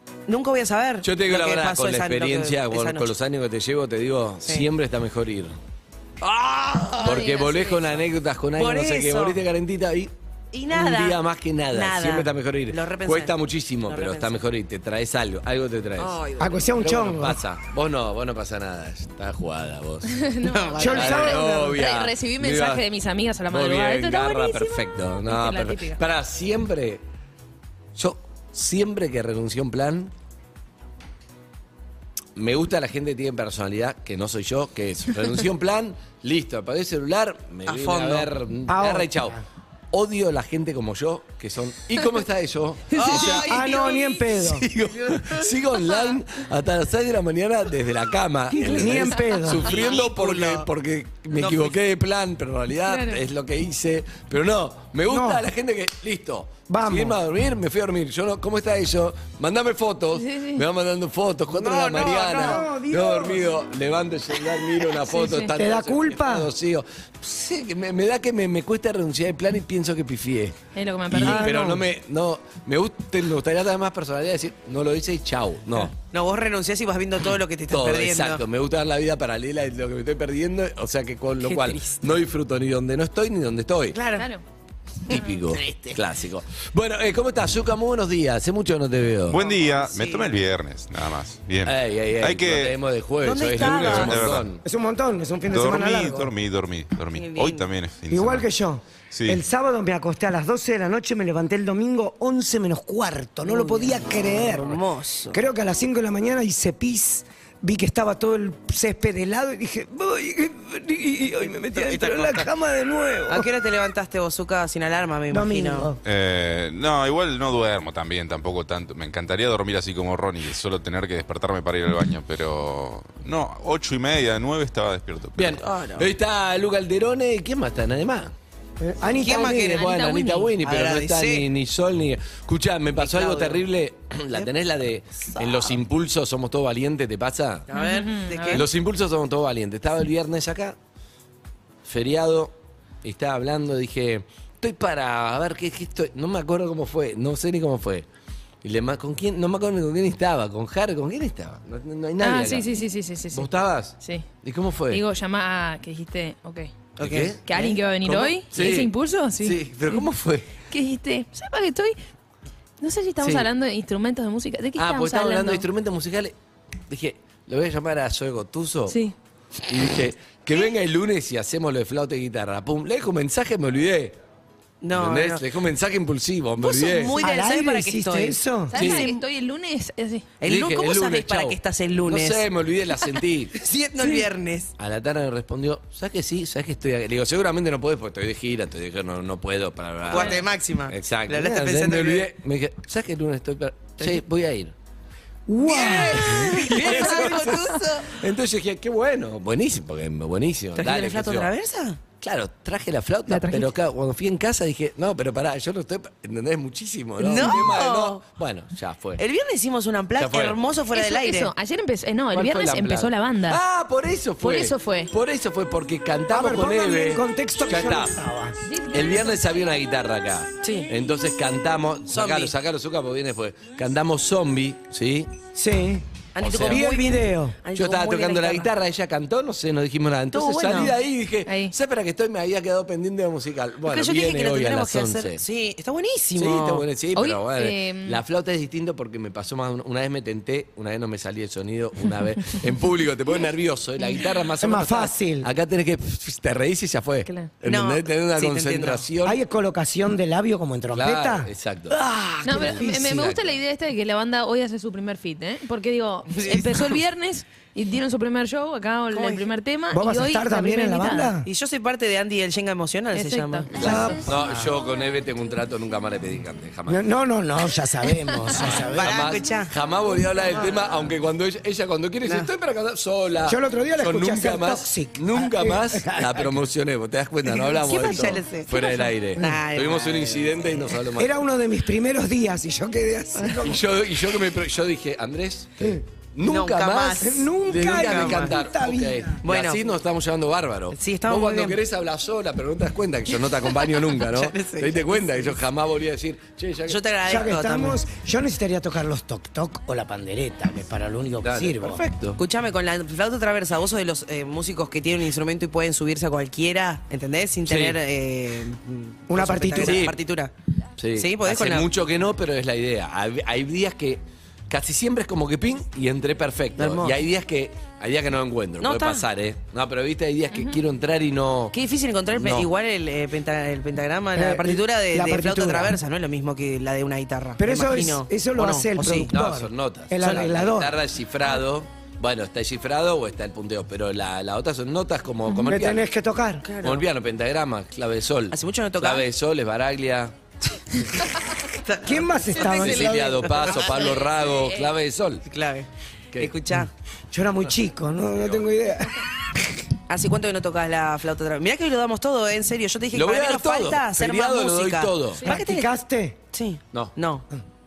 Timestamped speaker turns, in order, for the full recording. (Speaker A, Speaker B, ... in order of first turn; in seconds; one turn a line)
Speaker A: 0.3-3.1
Speaker B: 1.0-5.6
Speaker A: 6.2-8.0
Speaker B: 7.0-10.1
Speaker C: 7.0-7.7
Speaker A: 8.6-9.4
Speaker A: 10.5-11.2
Speaker B: 10.7-16.2
Speaker A: 11.7-13.3
Speaker A: 13.9-14.4
Speaker A: 16.0-16.7
Speaker D: 16.4-17.4
Speaker B: 16.8-20.1
Speaker C: 20.1-26.0
Speaker A: 20.4-21.1
Speaker D: 20.8-21.7
Speaker B: 20.9-22.9
Speaker B: 23.5-27.0
Speaker B: 27.9-30.1
Speaker B: 32.4-39.4
Speaker A: 37.7-38.3
Speaker D: 38.7-39.4
Speaker B: 39.9-43.5
Speaker A: 42.9-45.5
Speaker D: 43.4-44.6
Speaker B: 44.5-70.6
Speaker D: 48.5-49.7
Speaker A: 49.6-50.7
Speaker A: 51.3-51.8
Speaker C: 52.9-53.2
Speaker D: 55.1-55.5
Speaker D: 56.7-57.2
Speaker C: 60.1-60.6
Speaker D: 61.5-63.5
Speaker A: 61.6-62.6
Speaker C: 65.1-65.5
Speaker D: 65.5-66.5
Speaker C: 70.7-71.5
Speaker B: 71.1-75.9
Speaker D: 71.2-71.8
Speaker A: 75.9-78.4
Speaker B: 77.7-84.0
Speaker A: 81.4-82.0
Speaker A: 83.9-84.3
Speaker C: 84.1-84.4
Speaker B: 85.1-89.4
Speaker A: 85.1-86.0
Speaker E: 89.3-92.8
Speaker A: 89.3-90.3
Speaker B: 91.6-94.6
Speaker A: 93.2-94.1
Speaker E: 93.5-94.5
Speaker D: 94.6-96.3
Speaker E: 95.5-98.5
Speaker A: 97.1-97.7
Speaker D: 98.1-104.7
Speaker E: 99.1-99.4
Speaker A: 103.5-105.4
Speaker D: 105.3-113.5
Speaker A: 111.7-112.5
Speaker A: 113.3-115.9
Speaker D: 115.3-116.0
Speaker E: 116.0-125.6
Speaker B: 125.4-128.3
Speaker A: 125.6-126.1
Speaker D: 128.8-129.7
Speaker A: 129.2-130.0
Speaker C: 129.2-130.5
Speaker B: 129.5-137.7
Speaker A: 130.6-131.4
Speaker A: 133.0-133.6
Speaker A: 135.2-135.7
Speaker A: 137.7-138.7
Speaker C: 137.7-138.6
Speaker B: 138.5-140.8
Speaker B: 141.8-148.1
Speaker B: 148.6-155.0
Speaker C: 152.2-154.3
Speaker C: 154.9-156.7
Speaker A: 157.0-157.8
Speaker B: 157.0-157.4
Speaker C: 157.4-160.1
Speaker B: 158.0-160.5
Speaker C: 160.7-162.0
Speaker C: 162.8-165.7
Speaker B: 163.2-163.5
Speaker B: 164.8-166.3
Speaker B: 166.9-169.0
Speaker C: 168.9-169.1
Speaker B: 169.7-174.2
Speaker A: 174.8-175.4
Speaker B: 174.9-177.2
Speaker A: 176.6-179.2
Speaker D: 177.2-178.7
Speaker C: 178.7-180.3
Speaker B: 178.7-179.1
Speaker A: 180.4-182.4
Speaker B: 180.4-183.5
Speaker A: 183.5-184.7
Speaker B: 184.8-194.7
Speaker A: 190.1-192.3
Speaker C: 190.1-190.4
Speaker D: 195.5-197.0
Speaker A: 195.6-198.1
Speaker B: 195.8-201.5
Speaker A: 200.8-202.0
Speaker B: 202.2-209.2
Speaker C: 203.3-203.7
Speaker A: 207.2-208.2
Speaker A: 209.2-211.5
Speaker B: 210.2-210.6
Speaker C: 210.9-213.6
Speaker B: 212.3-218.1
Speaker C: 214.4-215.1
Speaker D: 216.3-218.6
Speaker C: 218.6-219.6
Speaker B: 218.9-225.3
Speaker A: 220.6-220.9
Speaker A: 222.1-222.5
Speaker D: 225.5-227.6
Speaker A: 226.3-228.7
Speaker B: 226.4-226.8
Speaker B: 227.8-235.4
Speaker A: 230.3-230.9
Speaker C: 231.4-231.7
Speaker A: 233.9-236.8
Speaker B: 236.3-249.4
Speaker C: 237.1-238.2
Speaker D: 244.6-245.5
Speaker C: 247.2-247.5
Speaker A: 247.6-249.0
Speaker D: 249.2-253.3
Speaker B: 250.9-252.0
Speaker C: 252.4-261.4
Speaker B: 252.5-253.5
Speaker A: 256.3-256.9
Speaker A: 259.1-259.5
Speaker D: 259.9-261.5
Speaker A: 261.4-264.1
Speaker C: 263.1-264.2
Speaker D: 263.7-264.7
Speaker B: 263.8-267.0
Speaker D: 266.9-269.3
Speaker A: 268.8-269.7
Speaker B: 269.0-281.3
Speaker D: 273.4-276.5
Speaker A: 277.6-280.5
Speaker D: 281.2-283.8
Speaker B: 283.6-297.0
Speaker A: 286.4-288.5
Speaker D: 287.2-289.4
Speaker A: 289.4-289.8
Speaker A: 290.9-291.8
Speaker A: 294.1-295.5
Speaker A: 296.9-298.0
Speaker D: 297.2-302.0
Speaker B: 301.4-302.4
Speaker A: 302.4-310.5
Speaker B: 307.6-308.0
Speaker D: 309.3-310.1
Speaker B: 309.8-310.2
Speaker B: 311.0-321.7
Speaker A: 311.1-311.9
Speaker A: 316.8-317.2
Speaker A: 318.8-319.2
Speaker C: 320.5-320.8
Speaker A: 321.7-329.3
Speaker B: 322.3-322.7
Speaker D: 324.4-326.0
Speaker D: 327.6-331.0
Speaker B: 329.3-336.0
Speaker C: 335.5-335.7
Speaker D: 335.7-336.6
Speaker A: 336.6-337.0
Speaker B: 336.8-340.3
Speaker A: 338.5-339.2
Speaker A: 341.6-344.2
Speaker D: 342.0-343.6
Speaker B: 342.6-345.4
Speaker C: 344.6-344.9
Speaker A: 345.4-346.9
Speaker D: 347.3-349.3
Speaker B: 348.3-348.6
Speaker A: 350.1-355.9
Speaker B: 353.1-355.4
Speaker D: 355.4-356.4
Speaker A: 356.5-357.4